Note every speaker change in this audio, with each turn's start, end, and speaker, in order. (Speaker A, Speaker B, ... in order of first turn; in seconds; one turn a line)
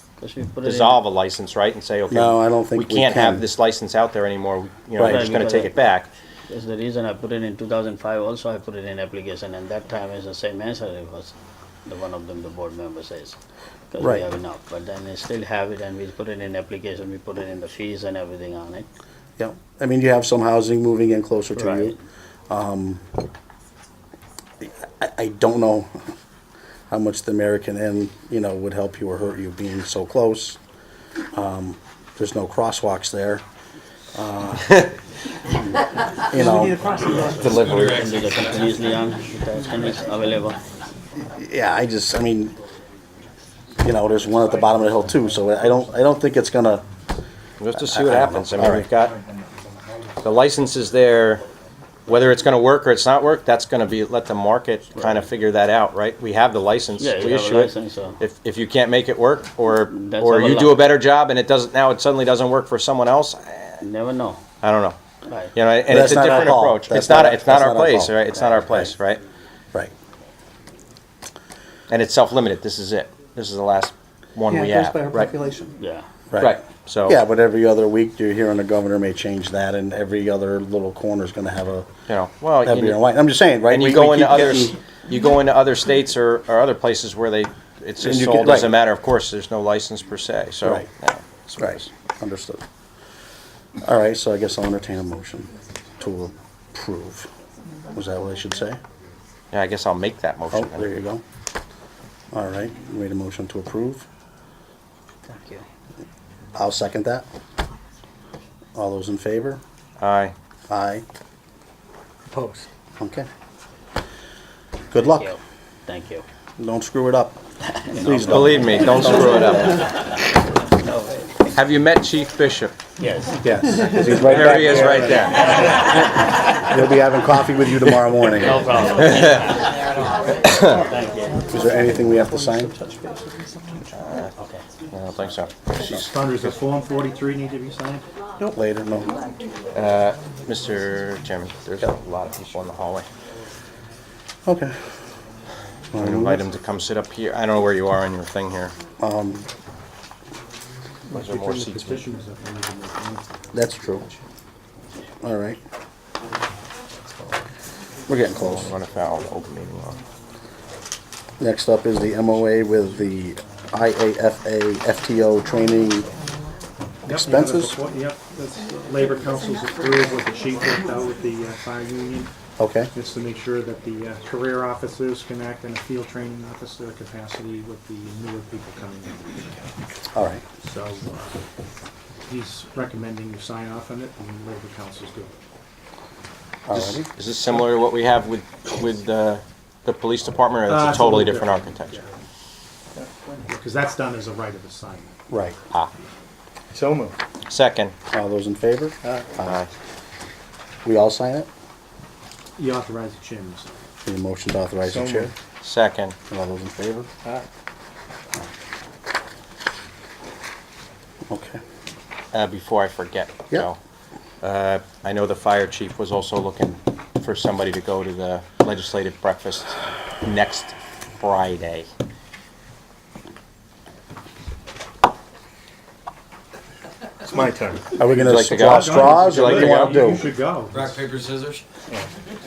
Speaker A: 0.2-1.0
Speaker B: 0.7-6.1
Speaker C: 2.1-3.5
Speaker C: 5.0-5.2
Speaker A: 5.0-5.8
Speaker A: 6.5-11.3
Speaker A: 11.9-13.4
Speaker A: 13.9-18.9
Speaker C: 14.0-14.3
Speaker C: 19.4-21.9
Speaker A: 21.6-22.0
Speaker C: 22.5-23.1
Speaker C: 25.0-26.0
Speaker C: 26.9-30.6
Speaker C: 31.3-33.4
Speaker C: 34.1-34.8
Speaker C: 36.3-36.9
Speaker D: 36.4-38.1
Speaker A: 36.9-40.6
Speaker C: 37.4-37.9
Speaker B: 37.5-38.1
Speaker C: 41.3-42.5
Speaker C: 43.8-46.8
Speaker B: 47.6-49.1
Speaker C: 47.8-48.9
Speaker E: 49.0-50.2
Speaker B: 50.2-51.4
Speaker B: 52.1-63.8
Speaker A: 55.0-55.3
Speaker A: 57.0-58.2
Speaker A: 59.9-60.9
Speaker A: 63.8-64.4
Speaker B: 64.6-65.0
Speaker A: 65.3-65.5
Speaker B: 65.5-69.2
Speaker C: 65.9-68.9
Speaker A: 68.3-68.8
Speaker B: 71.9-75.3
Speaker D: 74.5-75.7
Speaker A: 75.8-76.0
Speaker C: 76.3-81.9
Speaker B: 76.4-77.2
Speaker B: 82.1-83.0
Speaker C: 82.6-84.8
Speaker B: 83.7-91.9
Speaker C: 88.0-88.8
Speaker C: 90.6-90.9
Speaker C: 91.6-92.6
Speaker C: 93.8-97.3
Speaker C: 97.9-98.8
Speaker B: 99.5-100.9
Speaker C: 100.5-101.2
Speaker C: 102.3-104.0
Speaker A: 105.3-105.6
Speaker C: 106.5-107.2
Speaker C: 108.7-109.6
Speaker B: 110.0-110.3
Speaker C: 110.7-111.0
Speaker F: 112.3-112.7
Speaker C: 113.0-113.3
Speaker C: 114.9-115.3
Speaker A: 114.9-116.2
Speaker C: 116.6-117.4
Speaker A: 117.7-119.8
Speaker C: 118.0-119.6
Speaker B: 118.3-119.9
Speaker A: 120.8-121.5
Speaker B: 121.5-122.8
Speaker A: 123.0-123.6
Speaker C: 123.4-125.9
Speaker D: 124.0-124.9
Speaker B: 124.2-125.7
Speaker A: 125.1-126.0
Speaker C: 126.6-128.7
Speaker A: 128.3-129.9
Speaker A: 130.5-131.5
Speaker C: 131.5-132.7
Speaker D: 132.2-133.5
Speaker B: 133.9-134.3
Speaker A: 134.3-134.7
Speaker B: 134.9-136.6
Speaker E: 135.9-138.1
Speaker C: 138.5-139.1
Speaker B: 139.7-143.1
Speaker C: 144.5-144.8
Speaker C: 145.9-146.4
Speaker B: 146.0-148.8
Speaker C: 149.0-149.4
Speaker E: 151.1-154.0
Speaker B: 151.1-152.1
Speaker C: 153.5-154.1
Speaker C: 155.2-155.6
Speaker C: 158.1-158.7
Speaker B: 158.5-160.0
Speaker C: 161.4-166.1
Speaker E: 167.1-172.3
Speaker C: 167.1-167.8
Speaker C: 172.6-172.9
Speaker E: 172.9-179.4
Speaker C: 180.1-180.4
Speaker E: 180.6-181.4
Speaker E: 182.2-185.4
Speaker C: 186.7-187.1
Speaker B: 186.7-192.0
Speaker E: 190.7-192.1
Speaker E: 193.5-195.1
Speaker C: 195.3-195.6
Speaker F: 196.7-197.2
Speaker B: 197.5-197.9
Speaker C: 198.1-199.6
Speaker B: 199.4-199.7
Speaker C: 200.8-201.5
Speaker E: 202.6-203.7
Speaker C: 204.1-205.3
Speaker F: 204.9-205.3
Speaker B: 205.6-206.2
Speaker C: 206.3-207.1
Speaker C: 211.3-211.6
Speaker B: 212.3-213.8
Speaker B: 214.4-221.9
Speaker F: 227.2-228.0
Speaker C: 227.9-230.3
Speaker B: 228.1-231.6
Speaker E: 228.7-231.0